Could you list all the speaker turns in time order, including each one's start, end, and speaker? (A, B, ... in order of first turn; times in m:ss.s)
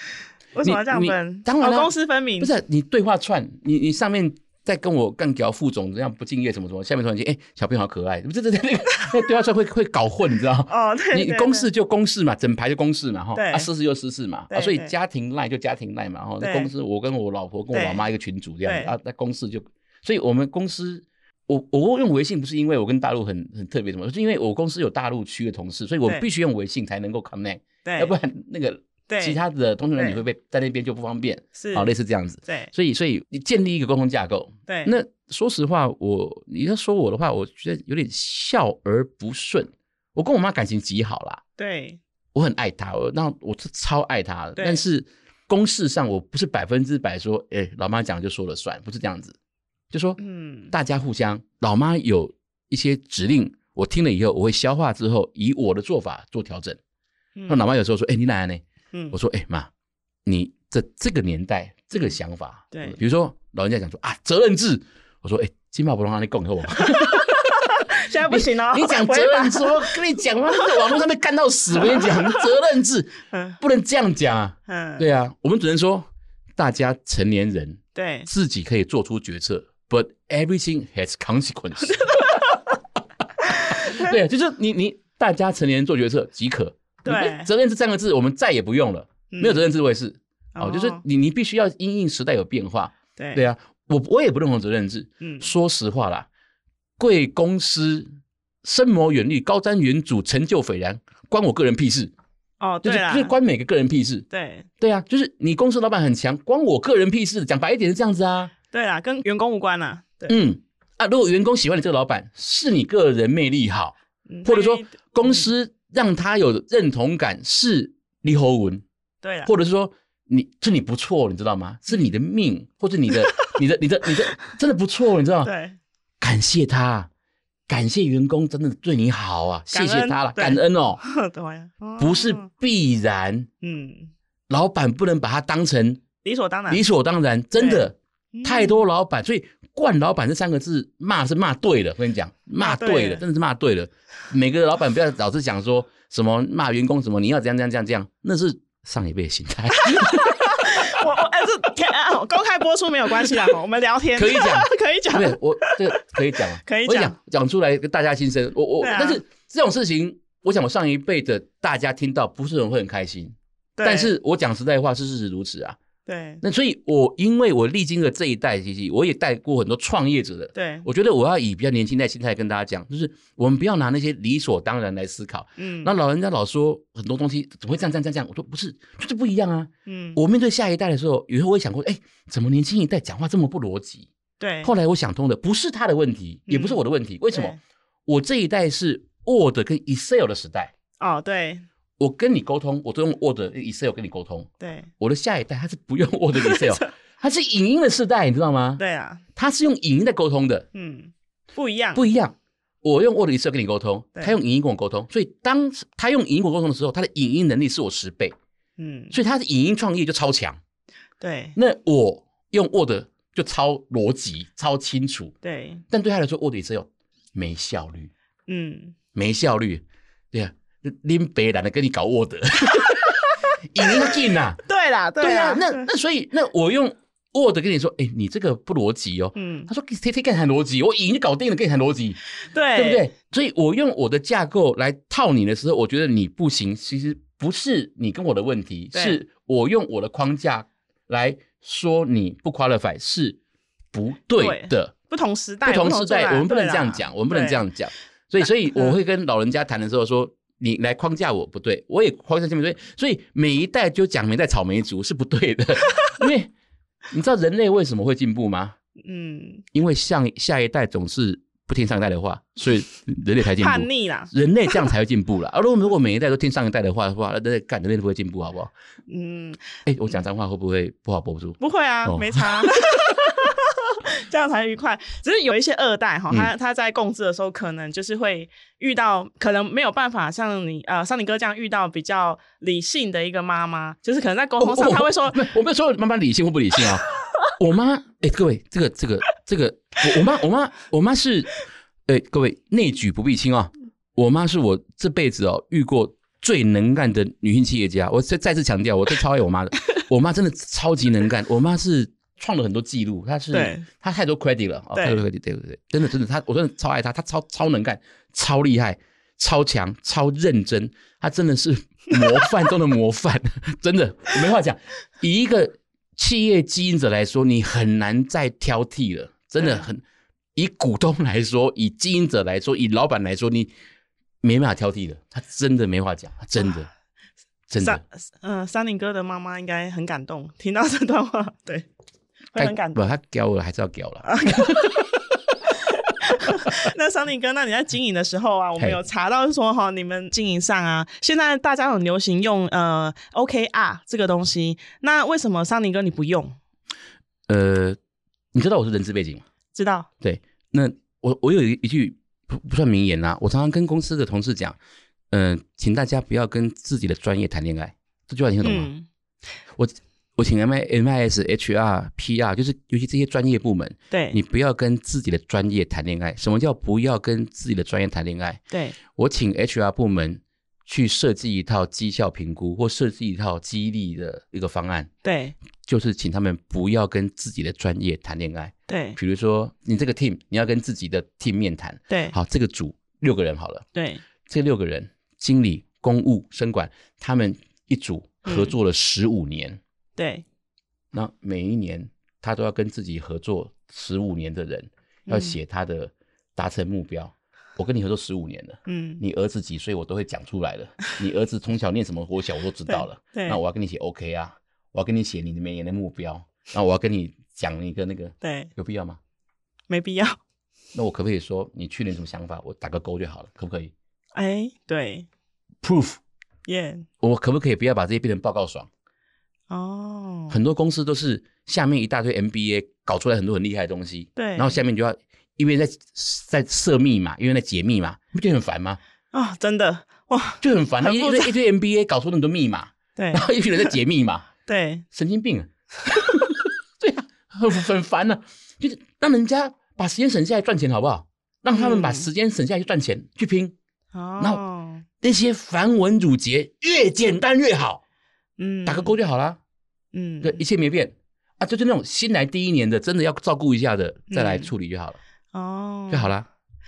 0:00.5-0:02.5 A
0:00.6-0:41.4 B
0:10.7-0:11.7 A
0:13.3-0:13.7 A
0:14.5-0:14.9 A
0:16.4-0:16.7 A
0:17.7-0:18.0 A
0:18.6-0:18.9 A
0:27.8-0:28.1 A
0:29.1-0:29.4 A
0:31.6-0:31.9 A
0:34.7-0:34.9 A
0:41.6-0:42.0 A
0:42.3-0:49.4 B
0:44.6-0:44.8 A
0:49.9-0:50.2 B
0:50.2-0:50.7 A
0:50.7-0:56.8 B
0:57.4-0:57.6 A
0:57.5-0:59.7 B
1:00.2-1:07.7 B
1:02.7-1:03.0 A
1:06.8-1:10.0 A
1:08.3-1:22.6 B
1:10.5-1:10.8 A
1:11.8-1:12.4 A
1:13.3-1:13.6 A
1:14.7-1:15.0 A
1:17.9-1:18.3 A
1:21.9-1:22.6 A
1:23.4-1:24.1 A
1:23.5-1:36.3 B
1:27.0-1:27.5 A
1:29.3-1:29.6 A
1:30.5-1:31.0 A
1:33.2-1:33.4 A
1:35.2-1:35.5 A
1:37.0-1:38.1 B
1:38.6-1:42.1 B
1:42.6-1:43.3 A
1:42.8-1:44.3 B
1:44.3-1:44.7 A
1:44.8-1:48.5 B
1:48.7-1:50.4 A
1:50.3-1:58.8 B
1:54.3-1:55.5 A
1:59.2-1:59.5 A
1:59.4-2:05.5 B
2:03.3-2:03.5 A
2:05.4-2:05.8 A
2:06.2-2:07.1 B
2:07.7-2:11.0 B
2:09.7-2:12.5 A
2:12.0-2:13.5 B
2:13.6-2:14.1 A
2:14.5-2:16.0 B
2:16.2-2:16.8 A
2:16.7-2:30.7 B
2:17.6-2:18.8 A
2:22.6-2:23.2 A
2:29.8-2:37.2 A
2:34.1-2:45.8 B
2:38.8-2:39.2 A
2:43.8-2:44.1 A
2:46.0-2:46.4 A
2:46.4-3:04.1 B
2:50.5-2:50.8 A
2:55.6-2:55.9 A
2:59.8-3:00.2 A
3:04.4-3:04.7 A
3:04.6-3:10.7 B
3:06.5-3:07.6 A
3:11.0-3:11.6 A
3:12.0-3:18.8 B
3:14.6-3:14.9 A
3:16.3-3:16.9 A
3:18.8-3:19.2 A
3:19.4-3:20.7 B
3:20.7-3:22.0 A
3:21.9-3:28.3 B
3:28.8-3:29.2 A
3:29.1-3:30.6 B
3:31.2-3:31.6 A
3:31.6-3:35.3 B
3:35.4-3:35.8 A
3:35.9-3:38.1 B
3:38.5-3:39.0 A
3:39.1-3:44.6 B
3:43.8-3:45.9 A
3:45.2-3:52.2 B
3:49.4-3:49.7 A
3:52.5-3:53.0 A
3:52.7-4:03.4 B
3:58.9-3:59.2 A
4:03.9-4:04.9 B
4:04.4-4:07.6 A
4:05.6-4:16.5 B
4:08.7-4:09.0 A
4:15.9-4:16.2 A
4:17.1-4:18.8 B
4:19.0-4:19.6 A
4:19.7-4:28.7 B
4:23.6-4:24.9 A
4:29.1-4:29.8 A
4:29.8-4:32.8 B
4:31.6-4:45.4 A
4:44.6-4:51.5 B
4:52.0-5:20.0 B
5:03.5-5:03.9 A
5:04.9-5:05.2 A
5:19.6-5:19.8 A
5:20.5-5:23.7 B
5:24.4-5:26.9 B
5:27.7-5:28.0 B
5:27.8-5:31.9 A
5:32.5-5:33.1 A
5:32.6-5:35.2 B
5:34.2-5:34.7 A
5:36.2-5:46.6 A
5:47.5-5:48.0 B
5:48.5-5:49.4 B
5:49.7-5:50.1 A
5:50.2-5:54.8 B
5:55.3-5:58.9 B
5:58.6-5:59.1 A
5:59.8-6:15.1 B
6:04.1-6:04.4 A
6:08.7-6:09.0 A
6:15.2-6:15.6 A
6:15.8-6:23.8 B
6:18.9-6:19.2 A
6:22.1-6:22.3 A
6:23.9-6:24.2 A
6:24.4-6:29.8 B
6:28.4-6:28.7 A
6:30.2-6:30.4 A
6:31.1-6:49.2 B
6:35.3-6:35.6 A
6:38.8-6:39.2 A
6:42.9-6:43.6 A
6:48.4-6:48.7 A
6:49.9-6:50.4 A
6:50.9-6:53.9 B
6:54.3-6:55.3 A
6:55.8-6:56.2 B
6:56.6-6:57.0 A
6:57.2-6:58.9 B
6:59.7-7:00.6 A
7:00.5-7:09.0 B
7:04.4-7:04.8 A
7:09.3-7:11.5 A
7:10.6-7:14.4 B
7:13.2-7:13.5 A
7:14.6-7:15.0 A
7:15.1-7:23.7 B
7:21.7-7:22.3 A
7:24.1-7:25.0 A
7:25.2-7:28.0 B
7:28.6-7:29.1 A
7:28.8-7:29.6 B
7:30.1-7:30.6 A
7:30.4-7:35.2 B
7:34.3-7:34.7 A
7:35.5-7:36.3 A
7:36.1-7:36.4 B